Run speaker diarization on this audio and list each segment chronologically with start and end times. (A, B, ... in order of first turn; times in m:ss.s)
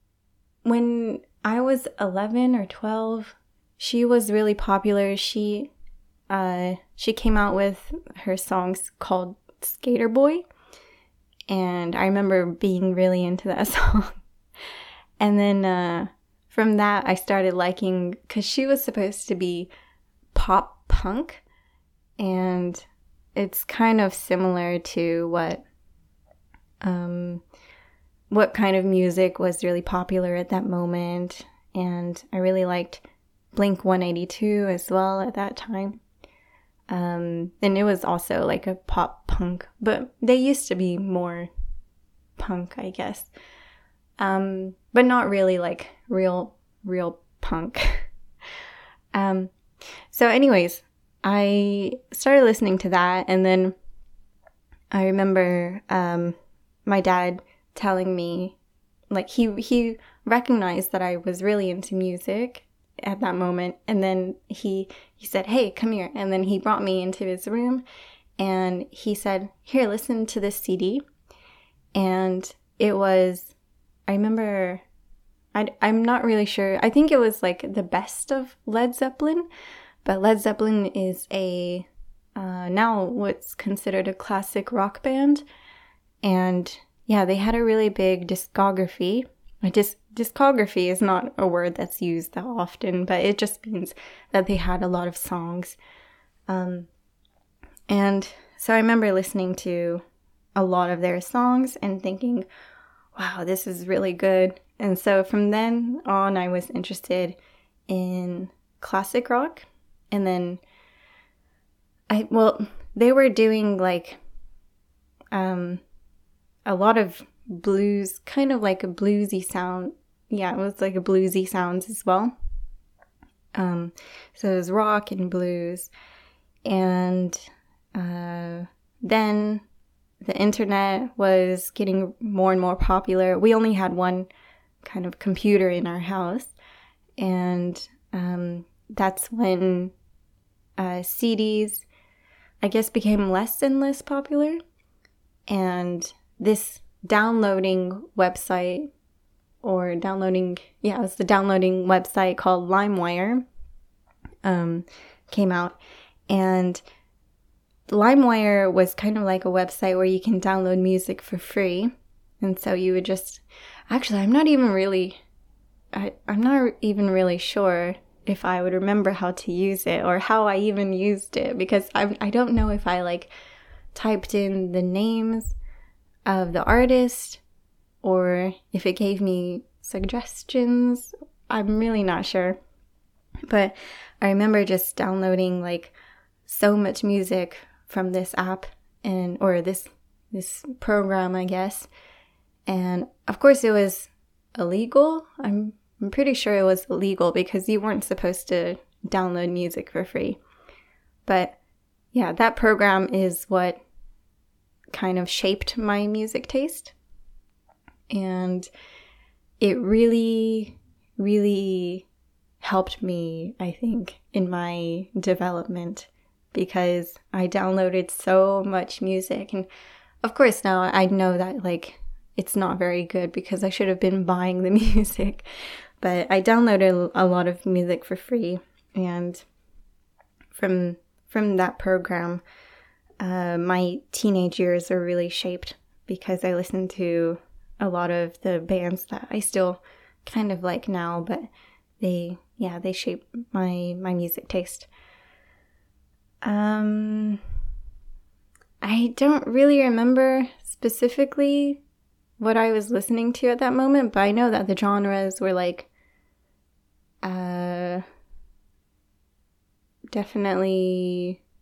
0:00.6-0:05.7 A
0:06.3-0:10.4 A
0:11.5-0:14.2 A
0:15.2-0:19.7 A
0:20.3-0:21.4 A
0:22.2-0:25.6 A
0:26.8-0:27.4 A
0:28.3-0:33.0 A
0:33.5-0:36.0 A
0:36.9-0:41.5 A
0:42.4-0:43.3 A
0:44.2-0:48.1 A
0:49.1-0:49.5 A
0:50.1-0:53.8 A
0:54.9-0:56.4 A
0:56.9-0:58.6 A
0:59.1-1:07.8 A
1:08.4-1:11.0 A
1:12.0-1:13.5 A
1:14.1-1:14.8 A
1:15.6-1:19.5 A
1:20.0-1:25.4 A
1:26.2-1:35.8 A
1:36.5-1:36.9 A
1:37.9-1:40.0 A
1:40.6-1:42.5 A
1:43.2-1:47.4 A
1:47.9-1:50.6 A
1:52.1-1:54.2 A
1:55.3-1:55.8 A
1:56.7-2:02.4 A
2:03.6-2:05.9 A
2:06.7-2:07.4 A
2:08.0-2:09.6 A
2:10.2-2:14.3 A
2:14.8-2:16.6 A
2:17.2-2:19.9 A
2:20.8-2:21.9 A
2:22.6-2:24.6 A
2:25.5-2:28.9 A
2:29.6-2:33.4 A
2:34.4-2:35.8 A
2:36.3-2:36.8 A
2:37.9-2:45.2 A
2:45.9-2:53.3 A
2:53.9-2:55.6 A
2:56.3-2:57.4 A
2:58.0-3:02.6 A
3:03.5-3:05.9 A
3:06.5-3:11.9 A
3:12.7-3:20.4 A
3:21.3-3:21.6 A
3:22.1-3:23.8 A
3:24.9-3:27.0 A
3:28.1-3:28.7 A
3:29.6-3:32.1 A
3:32.6-3:39.7 A
3:40.2-3:45.5 A
3:46.0-3:49.4 A
3:50.5-3:52.4 A
3:53.2-4:01.5 A
4:02.0-4:04.9 A
4:06.4-4:07.4 A
4:08.8-4:11.8 A
4:12.4-4:15.9 A
4:17.2-4:18.0 A
4:20.1-4:21.4 A